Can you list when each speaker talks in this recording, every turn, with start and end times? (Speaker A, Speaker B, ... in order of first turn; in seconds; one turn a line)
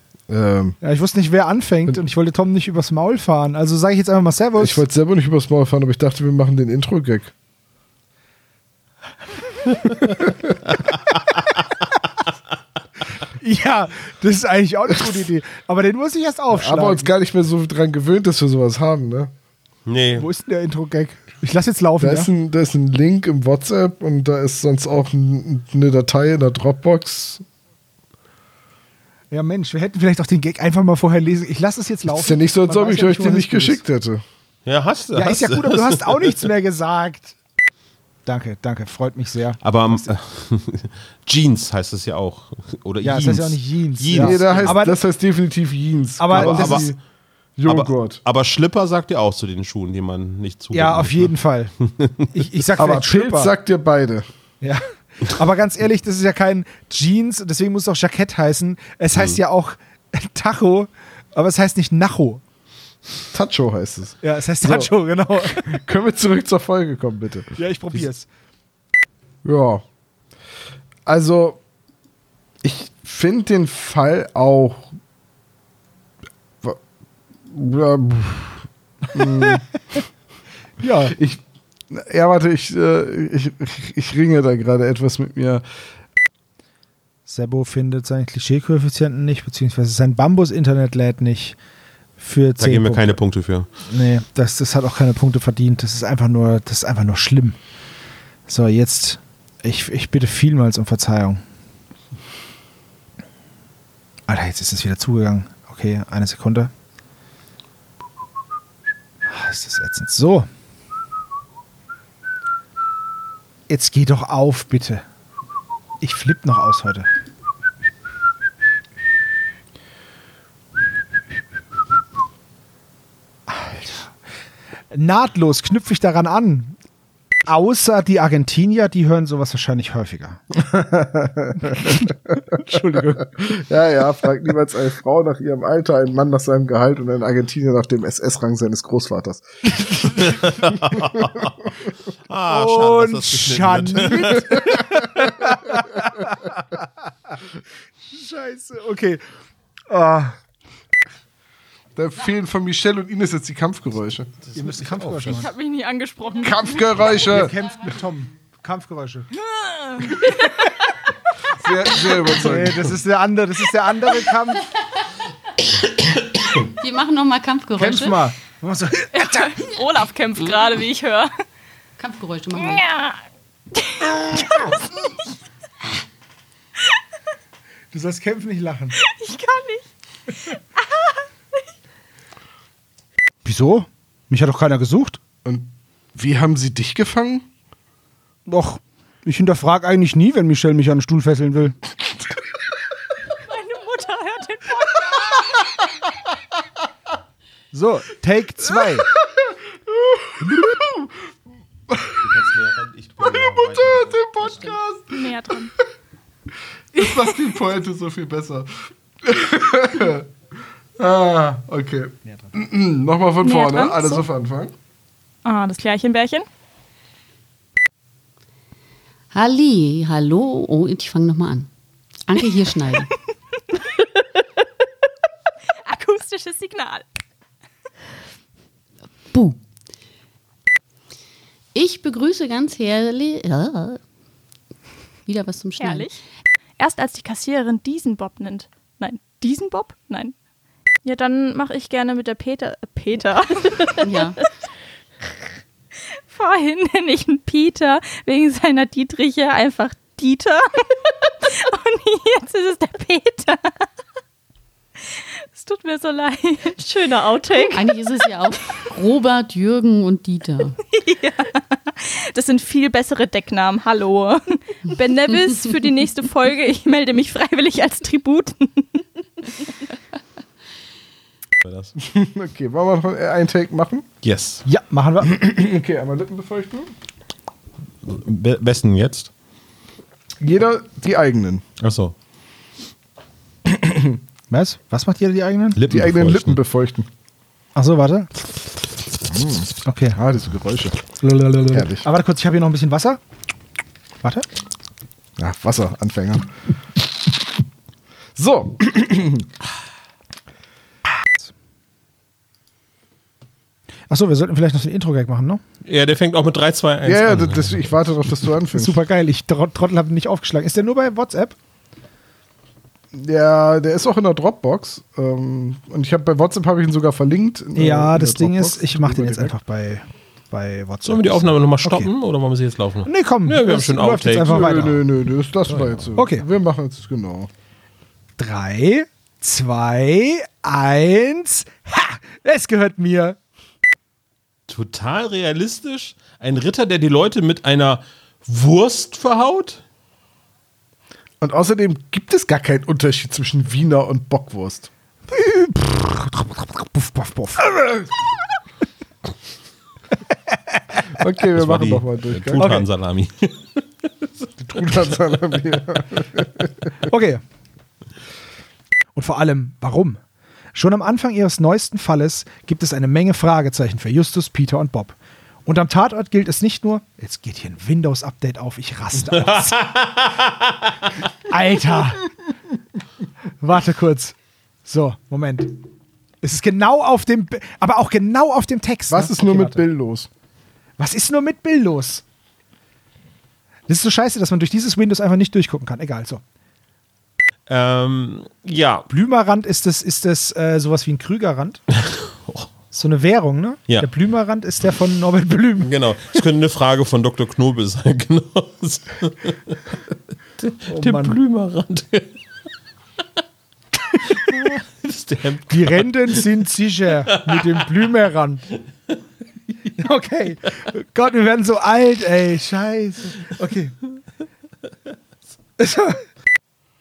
Speaker A: 0.3-0.8
Speaker B: 0.8-4.8
Speaker A: 4.6-7.3
Speaker B: 13.4-17.1
Speaker A: 16.5-19.3
Speaker C: 19.9-20.3
Speaker B: 20.2-22.3
Speaker A: 22.0-27.4
Speaker B: 29.3-33.8
Speaker A: 32.1-34.2
Speaker C: 34.7-36.4
Speaker B: 35.1-37.4
Speaker B: 38.3-40.1
Speaker C: 39.6-44.8
Speaker B: 43.0-45.0
Speaker A: 44.1-47.0
Speaker B: 46.2-46.9
Speaker C: 46.4-46.9
Speaker A: 47.6-48.2
Speaker C: 47.6-52.5
Speaker B: 50.7-51.7
Speaker B: 52.3-53.5
Speaker A: 52.8-54.3
Speaker B: 54.6-62.4
Speaker C: 59.1-59.4
Speaker A: 63.3-64.9
Speaker B: 64.2-65.8
Speaker A: 65.5-68.0
Speaker B: 67.6-68.3
Speaker A: 69.5-69.8
Speaker A: 71.1-71.6
Speaker A: 72.6-74.9
Speaker A: 77.5-80.0
Speaker B: 79.2-79.5
Speaker B: 80.8-81.2
Speaker A: 81.1-85.6
Speaker B: 87.3-91.6
Speaker B: 92.2-93.1
Speaker C: 92.6-93.7
Speaker B: 93.9-97.6
Speaker B: 98.5-101.4
Speaker B: 104.3-106.7
Speaker B: 109.3-110.5
Speaker B: 113.7-115.0
Speaker B: 116.0-117.1
Speaker B: 123.5-124.1
Speaker B: 124.9-126.8
Speaker B: 127.5-130.4
Speaker A: 130.6-141.5
Speaker B: 131.7-132.1
Speaker B: 132.6-133.2
Speaker C: 140.2-141.5
Speaker C: 142.3-144.8
Speaker B: 142.5-146.8
Speaker A: 144.5-146.3
Speaker B: 148.1-149.2
Speaker B: 149.9-150.4
Speaker A: 152.0-154.3
Speaker C: 154.5-155.4
Speaker B: 154.6-155.5
Speaker D: 155.3-156.9
Speaker A: 156.4-157.6
Speaker B: 157.0-159.3
Speaker D: 159.4-160.7
Speaker A: 161.6-163.0
Speaker B: 162.3-164.7
Speaker E: 166.8-168.2
Speaker B: 167.8-169.6
Speaker D: 169.1-171.3
Speaker E: 172.0-172.8
Speaker D: 172.6-173.2
Speaker D: 173.8-174.8
Speaker B: 177.9-179.0
Speaker D: 179.0-179.9
Speaker D: 180.4-181.3
Speaker B: 183.4-185.2
Speaker A: 185.4-187.5
Speaker B: 188.5-191.8
Speaker D: 193.5-195.7
Speaker B: 197.7-199.1
Speaker A: 199.5-201.1
Speaker C: 202.2-204.8
Speaker A: 203.2-205.3
Speaker D: 205.1-205.7
Speaker A: 206.9-208.7
Speaker A: 209.2-210.3
Speaker A: 211.0-214.7
Speaker D: 213.4-214.3
Speaker D: 215.4-216.5
Speaker E: 219.3-221.7
Speaker E: 222.3-223.1
Speaker D: 225.9-227.1
Speaker E: 231.7-234.0
Speaker E: 235.3-236.1
Speaker D: 235.8-236.2
Speaker D: 236.8-240.3
Speaker D: 241.0-244.3
Speaker E: 244.0-244.4
Speaker D: 246.3-253.9
Speaker D: 255.0-258.5
Speaker E: 257.6-260.8
Speaker D: 260.9-269.1
Speaker C: 271.6-271.9
Speaker A: 272.0-274.1
Speaker C: 274.2-274.6
Speaker B: 274.7-275.4
Speaker A: 275.2-276.9
Speaker C: 278.0-279.3
Speaker A: 280.4-281.6
Speaker C: 281.8-282.1
Speaker A: 283.7-284.2
Speaker B: 284.5-285.8
Speaker C: 285.8-286.6
Speaker A: 285.9-287.1
Speaker B: 287.8-288.3
Speaker A: 289.3-291.1
Speaker B: 289.9-290.2
Speaker B: 291.2-293.2
Speaker A: 291.7-292.1
Speaker B: 294.2-294.5
Speaker A: 295.4-296.5
Speaker A: 298.4-299.5
Speaker B: 304.1-305.6
Speaker C: 305.9-307.9
Speaker A: 307.1-309.0
Speaker B: 308.7-311.6
Speaker A: 313.1-319.5
Speaker B: 317.8-322.1
Speaker C: 321.0-324.9
Speaker B: 323.1-325.0
Speaker A: 324.4-327.5
Speaker C: 325.7-326.1
Speaker B: 326.2-326.5
Speaker B: 328.4-333.4
Speaker C: 334.7-339.8
Speaker A: 341.4-344.9
Speaker B: 345.3-347.7
Speaker B: 350.5-350.8
Speaker A: 351.2-352.8
Speaker C: 351.6-353.8
Speaker B: 352.6-352.9
Speaker A: 354.6-356.9
Speaker B: 357.1-357.4
Speaker B: 359.1-360.2
Speaker B: 360.7-365.1
Speaker B: 365.7-369.8
Speaker C: 369.3-370.9
Speaker B: 371.5-372.3
Speaker B: 373.6-375.8
Speaker B: 376.4-379.8
Speaker A: 379.1-380.3
Speaker B: 381.0-382.2
Speaker B: 383.9-386.4
Speaker C: 387.7-389.1
Speaker B: 389.1-391.8
Speaker C: 391.9-392.7
Speaker B: 392.9-395.9
Speaker C: 395.8-399.8
Speaker C: 400.6-402.4
Speaker B: 400.9-401.4
Speaker C: 404.3-406.4
Speaker B: 405.7-408.6
Speaker C: 407.3-407.8
Speaker B: 410.0-414.0
Speaker B: 415.8-416.2